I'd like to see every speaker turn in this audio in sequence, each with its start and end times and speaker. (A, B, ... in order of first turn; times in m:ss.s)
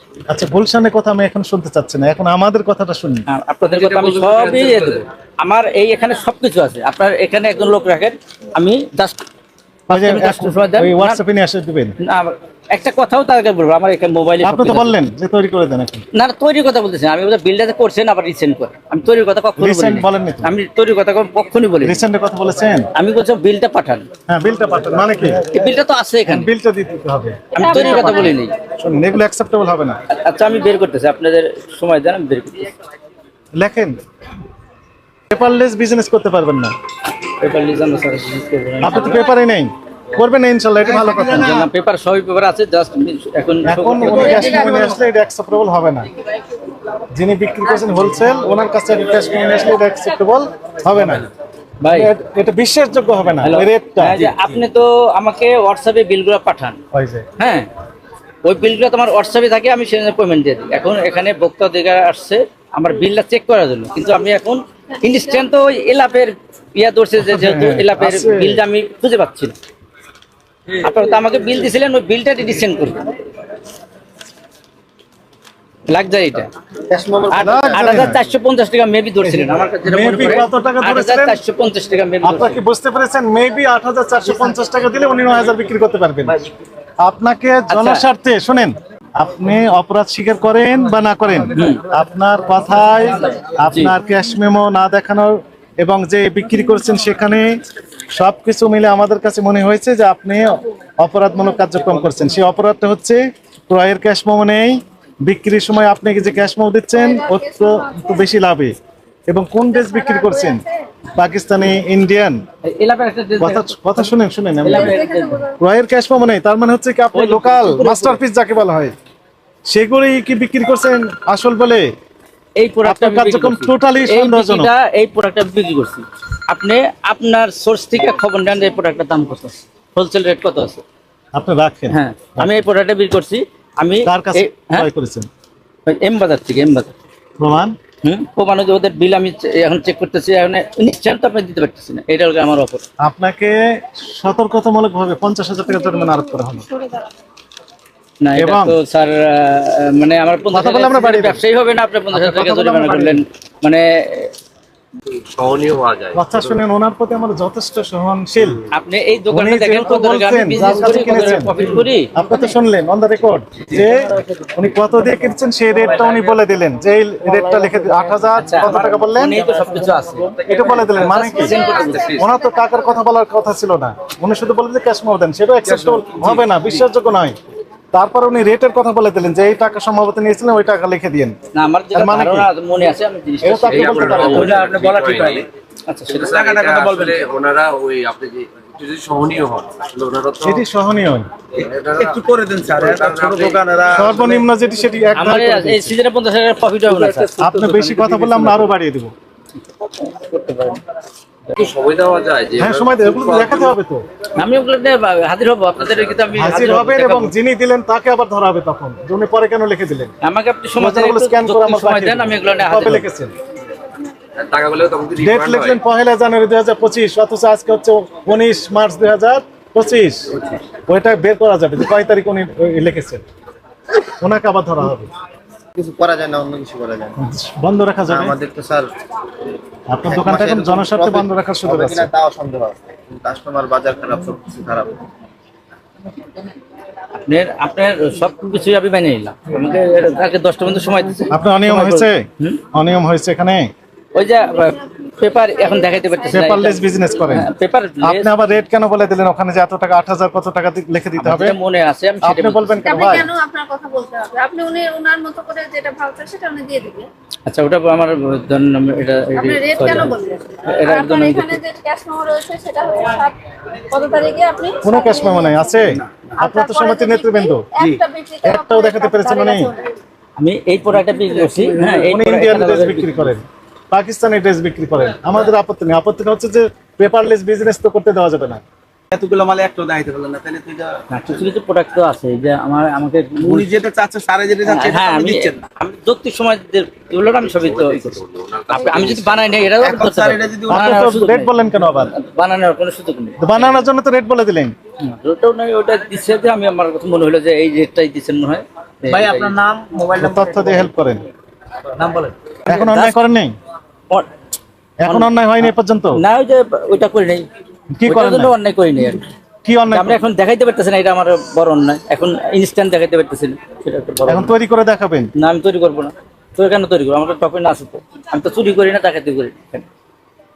0:00.3-0:03.2 A
0:03.3-0:09.2 B
0:03.7-0:05.0 C
0:09.9-0:11.9 A
0:09.9-0:11.2 B
0:12.0-0:15.0 B
0:14.4-0:16.0 A
0:16.1-0:22.0 B
0:19.6-0:20.5 A
0:21.8-0:22.9 A
0:22.9-0:24.1 B
0:24.3-0:25.4 A
0:25.5-0:26.5 B
0:26.2-0:30.0 A
0:27.5-0:28.5 B
0:27.6-0:28.4 D
0:30.1-0:32.7 B
0:33.5-0:34.0 A
0:35.3-0:36.8 A
0:37.4-0:39.2 B
0:38.8-0:41.6 A
0:41.1-0:44.9 B
0:43.6-0:46.1 A
0:44.1-0:44.8 D
0:47.1-0:51.2 A
0:51.8-0:52.1 B
0:51.9-0:54.3 A
0:53.4-0:56.8 B
0:56.9-0:57.3 A
0:57.4-0:57.7 B
0:58.4-1:09.5 B
1:07.2-1:08.6 A
1:10.8-1:13.0 B
1:15.9-1:16.5 B
1:16.9-1:18.0 E
1:17.3-1:22.6 B
1:17.3-1:18.2 A
1:19.2-1:21.4 A
1:22.2-1:26.4 A
1:27.0-1:37.5 A
1:27.7-1:28.0 B
1:31.5-1:31.8 B
1:38.1-1:48.7 A
1:46.9-1:48.3 D
1:49.3-1:50.6 A
1:49.7-1:50.8 D
1:51.1-1:52.4 A
1:52.6-1:53.8 B
1:53.4-1:55.0 A
1:54.6-1:55.4 B
1:54.7-1:55.6 D
1:55.6-1:58.9 A
1:57.1-1:58.2 B
1:59.7-2:01.9 A
2:02.6-2:10.8 B
2:02.8-2:04.7 A
2:11.3-2:12.6 A
2:11.9-2:14.9 B
2:14.0-2:15.3 A
2:15.8-2:16.9 B
2:17.4-2:17.7 A
2:18.0-2:22.8 B
2:23.0-2:26.6 A
2:25.7-2:27.1 D
2:28.2-2:34.3 B
2:28.3-2:28.8 A
2:30.5-2:31.4 A
2:32.1-2:33.2 A
2:35.1-2:36.6 C
2:36.1-2:38.6 A
2:38.7-2:42.1 B
2:39.3-2:49.4 A
2:48.4-2:50.3 B
2:50.4-2:51.6 A
2:50.9-2:52.2 B
2:51.4-2:52.7 D
2:51.5-2:52.2 C
2:52.2-2:57.4 A
2:55.7-2:56.6 C
2:57.9-3:01.4 A
3:01.5-3:04.8 B
3:01.9-3:02.5 A
3:03.4-3:04.8 A
3:03.7-3:05.5 C
3:04.5-3:05.4 F
3:05.9-3:06.3 B
3:06.1-3:10.6 C
3:06.2-3:07.3 F
3:10.4-3:11.3 A
3:11.5-3:14.2 C
3:12.0-3:14.4 F
3:13.9-3:15.9 A
3:15.2-3:17.3 B
3:16.9-3:18.5 C
3:17.4-3:19.1 A
3:19.8-3:20.8 B
3:21.6-3:23.8 C
3:22.6-3:24.0 A
3:24.4-3:27.3 B
3:25.8-3:26.2 C
3:26.3-3:30.1 A
3:30.2-3:33.1 B
3:30.8-3:33.3 A
3:34.4-3:35.8 C
3:35.2-3:40.4 A
3:40.9-3:43.2 A
3:44.0-3:45.1 A
3:45.8-3:47.2 E
3:47.2-3:48.4 A
3:48.1-3:48.9 E
3:49.9-3:52.1 A
3:50.1-3:55.0 E
3:57.3-4:02.6 B
4:01.3-4:03.7 A
4:04.1-4:08.4 B
4:04.6-4:07.0 D
4:06.3-4:07.5 A
4:08.0-4:11.6 A
4:11.2-4:13.2 B
4:12.2-4:13.3 A
4:12.8-4:17.1 D
4:17.5-4:20.1 B
4:19.3-4:23.4 D
4:20.6-4:21.6 B
4:23.9-4:25.8 D
4:24.8-4:27.7 A
4:26.4-4:29.9 D
4:28.4-4:29.7 A
4:30.4-4:33.3 B
4:32.1-4:38.6 A
4:39.1-4:41.0 F
4:41.1-4:43.7 B
4:43.4-4:45.6 F
4:44.6-4:48.2 B
4:47.4-4:49.6 C
4:48.7-4:53.8 B
4:49.8-4:50.9 F
4:50.7-4:52.1 A
4:53.4-4:54.7 A
4:55.0-4:59.6 B
4:59.1-5:00.8 F
5:00.1-5:01.2 A
5:02.0-5:02.3 F
5:02.7-5:03.2 B
5:02.7-5:03.5 A
5:05.0-5:06.2 A
5:05.0-5:07.5 B
5:07.9-5:08.5 A
5:08.0-5:09.2 B
5:09.6-5:10.2 A
5:09.9-5:14.5 B
5:14.2-5:15.3 A
5:15.4-5:19.8 B